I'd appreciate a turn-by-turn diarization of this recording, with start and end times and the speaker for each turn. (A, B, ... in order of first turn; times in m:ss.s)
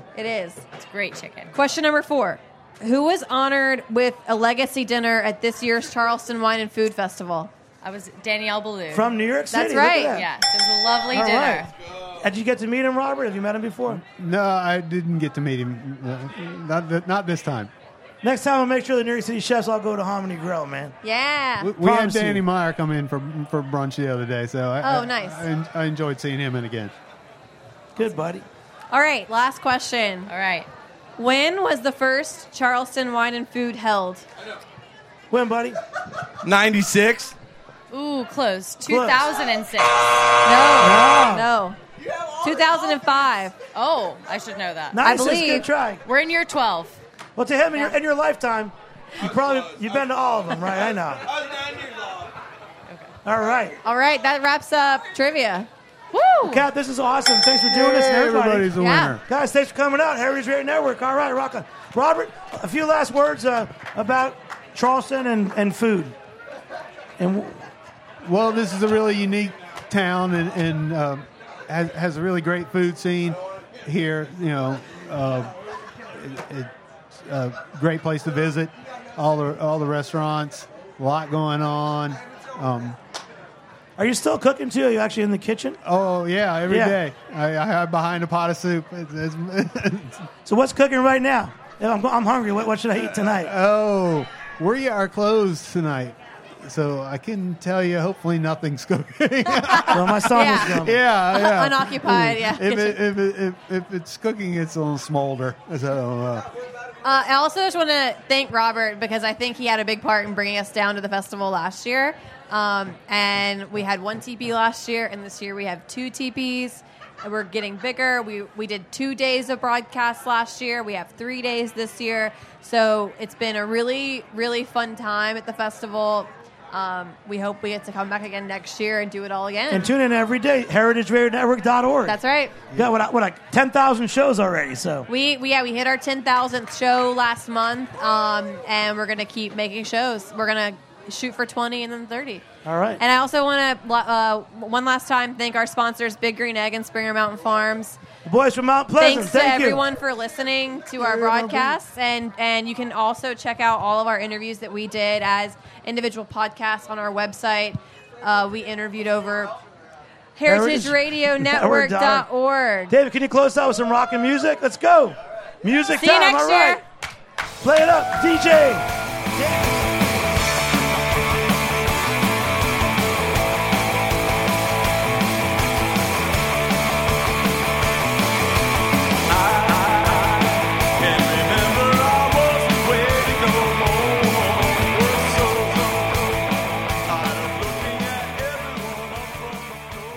0:00.1-0:00.6 A
0:00.8-0:01.5 B
0:01.5-0:07.5 A
0:07.8-0:09.2 B
0:08.9-0:10.3 C
0:09.5-0:10.2 A
0:10.1-0:11.7 B
0:11.1-0:11.6 C
0:12.2-0:14.0 C
0:13.9-0:17.7 D
0:18.2-0:21.0 C
0:21.0-0:21.7 A
0:21.6-0:26.9 D
0:21.8-0:22.4 C
0:24.8-0:25.4 A
0:28.0-0:28.4 C
0:28.9-0:30.3 A
0:30.3-0:30.7 B
0:31.2-0:34.2 A
0:35.3-0:35.8 C
0:36.4-0:37.3 E
0:37.9-0:40.3 B
0:38.9-0:39.2 C
0:40.4-0:41.8 A
0:40.8-0:41.4 C
0:42.4-0:43.5 A
0:43.7-0:45.0 B
0:44.9-0:46.0 C
0:45.0-0:45.7 A
0:46.0-0:47.0 B
0:47.4-0:51.3 C
0:53.2-0:53.8 C
0:53.8-0:55.7 A
0:56.1-0:56.7 B
0:56.4-0:58.7 C
0:57.7-0:59.2 D
0:58.8-0:59.1 A
0:59.3-1:06.1 C
1:07.2-1:07.7 C
1:08.2-1:15.5 D
1:16.1-1:23.0 D
1:24.0-1:25.8 C
1:25.8-1:30.3 D
1:26.7-1:27.0 C
1:30.4-1:33.5 C
1:32.9-1:46.5 D
1:39.6-1:43.0 A
1:39.9-1:41.0 C
1:47.0-2:09.9 A
2:09.7-2:12.2 C
2:12.0-2:12.6 A
2:12.7-2:15.1 C
2:15.1-2:22.4 A
2:22.6-2:23.0 C
2:23.0-2:28.0 A
2:28.2-2:29.8 C
2:29.0-2:39.5 A
2:31.0-2:31.8 C
2:40.4-2:42.9 A
2:40.5-2:42.2 C
2:42.9-2:46.8 C
2:46.0-2:46.8 A
2:47.6-2:48.8 C
2:49.4-2:49.7 C
2:59.5-3:00.1 E
3:01.0-3:05.7 E
3:07.3-3:08.9 E